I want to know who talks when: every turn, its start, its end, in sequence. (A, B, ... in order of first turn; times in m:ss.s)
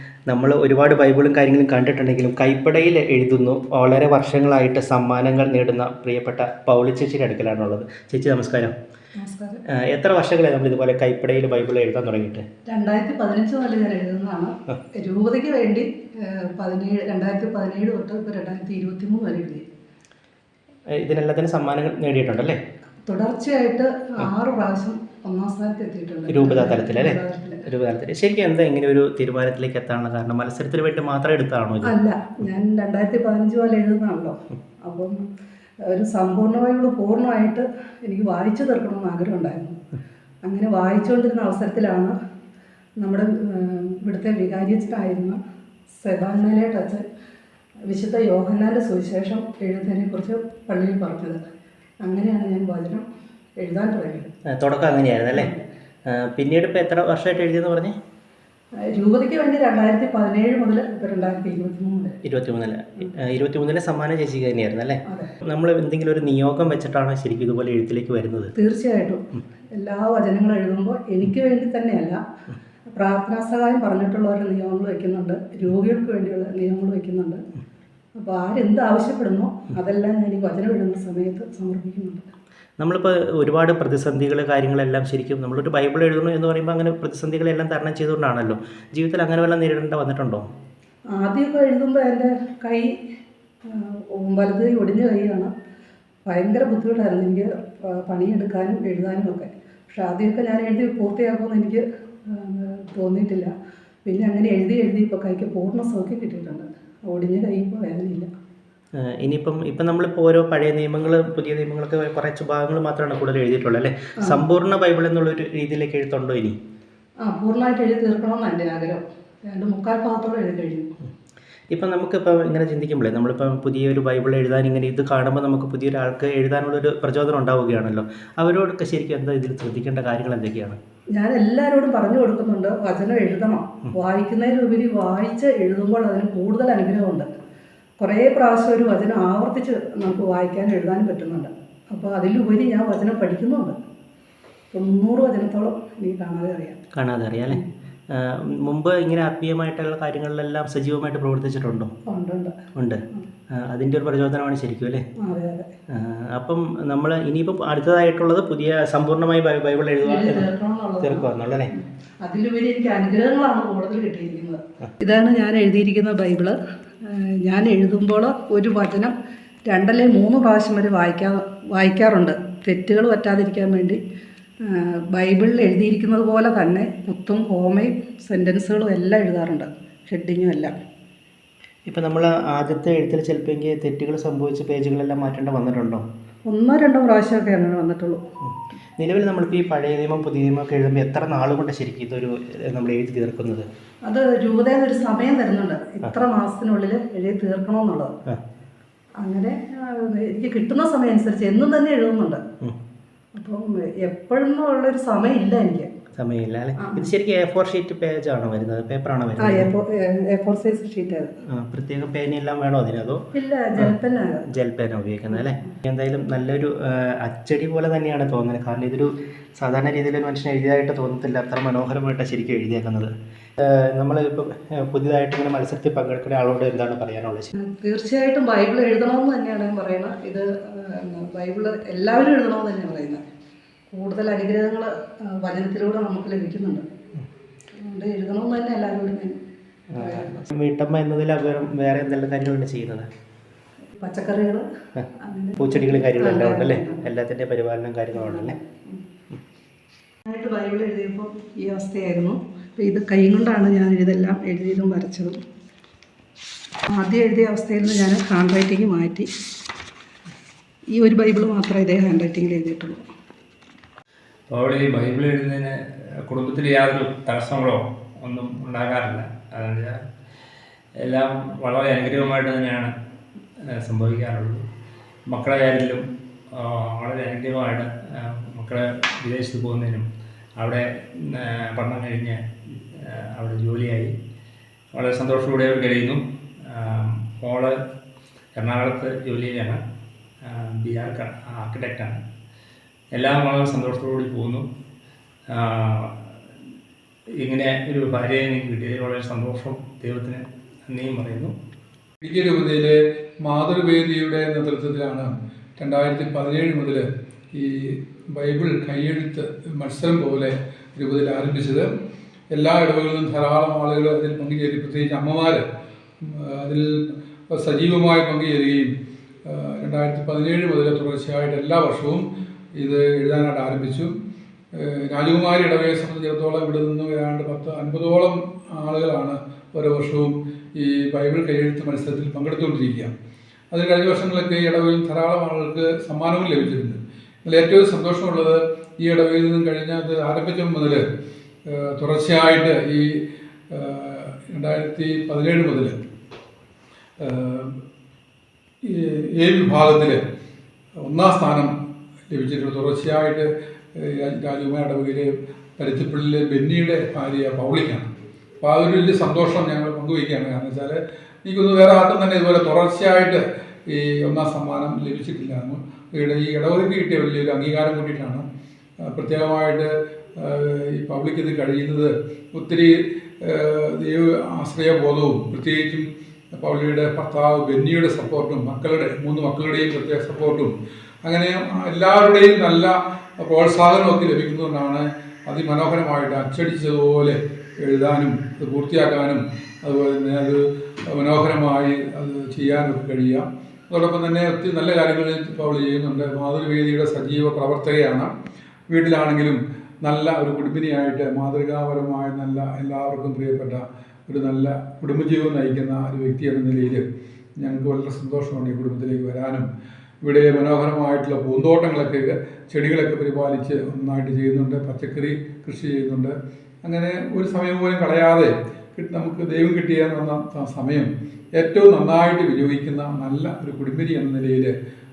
0:00.3-0:08.7 A
0:09.2-0:09.6 B
0:09.7-0:12.4 A
0:12.7-0:19.7 B
0:20.9-0:22.6 A
0:23.0-0:27.6 B
0:26.3-0:31.9 A
0:31.8-0:35.2 B
0:35.9-0:39.8 B
0:40.4-0:42.1 B
0:43.0-0:45.4 B
0:46.0-0:47.0 B
0:47.9-0:51.4 B
0:52.0-0:53.0 B
0:53.6-0:54.3 B
0:54.5-0:55.5 A
0:55.4-0:55.6 B
0:56.1-0:58.0 A
0:58.9-1:02.2 B
1:02.2-1:08.5 A
1:08.6-1:09.2 B
1:09.7-1:12.2 B
1:12.9-1:17.4 B
1:18.2-1:22.3 B
1:22.8-1:30.4 A
1:31.2-1:32.9 B
1:33.7-1:35.5 B
1:36.2-1:43.5 B
1:44.0-1:48.3 B
1:49.0-1:56.6 A
1:57.2-2:00.9 B
2:01.7-2:10.8 A
2:11.1-2:17.3 B
2:18.0-2:23.8 B
2:24.7-2:26.8 B
2:26.9-2:31.9 A
2:32.1-2:32.5 B
2:32.8-2:35.0 A
2:35.2-2:35.7 B
2:35.9-2:40.5 A
2:40.0-2:49.1 B
2:41.0-2:41.7 A
2:49.7-2:54.0 B
2:54.6-3:00.7 B
3:01.9-3:06.0 A
3:06.5-3:08.2 B
3:08.5-3:13.7 A
3:14.0-3:18.1 B
3:19.2-3:22.4 B
3:23.3-3:25.9 B
3:26.2-3:29.7 A
3:26.8-3:27.1 B
3:29.4-3:31.3 B
3:31.5-3:33.3 A
3:33.3-3:34.4 B
3:34.5-3:47.5 A
3:35.3-3:35.7 B
3:47.5-3:53.2 B
3:53.9-3:56.8 B
3:57.8-3:59.4 B
3:59.9-4:03.1 A
4:00.0-4:00.3 B
4:03.9-4:04.6 B
4:05.2-4:07.0 B
4:05.6-4:08.6 A
4:08.2-4:09.0 B
4:10.2-4:15.4 B
4:16.9-4:19.3 B
4:21.0-4:23.0 B
4:24.5-4:30.0 C
4:31.0-4:32.9 C
4:33.6-4:34.6 C
4:35.3-4:44.2 C
4:44.9-4:47.8 C
4:48.6-4:49.8 C
4:50.4-4:52.2 C
4:53.1-4:54.7 C
4:55.5-4:56.2 C
4:57.4-5:01.6 C
5:02.2-5:11.9 D
5:12.5-5:15.6 D
5:16.2-5:18.9 D
5:19.5-5:22.2 D
5:22.8-5:24.1 D
5:24.7-5:33.1 D
5:33.7-5:41.0 D
5:41.7-5:43.1 D
5:43.7-5:45.9 D
5:47.2-5:47.8 D
5:48.8-5:50.2 D
5:51.0-5:51.7 D
5:52.3-6:08.4 D
6:09.0-6:20.7 D
6:21.2-6:38.3 D
6:38.9-6:47.0 D
6:47.6-6:49.7 D
6:50.2-7:04.7 D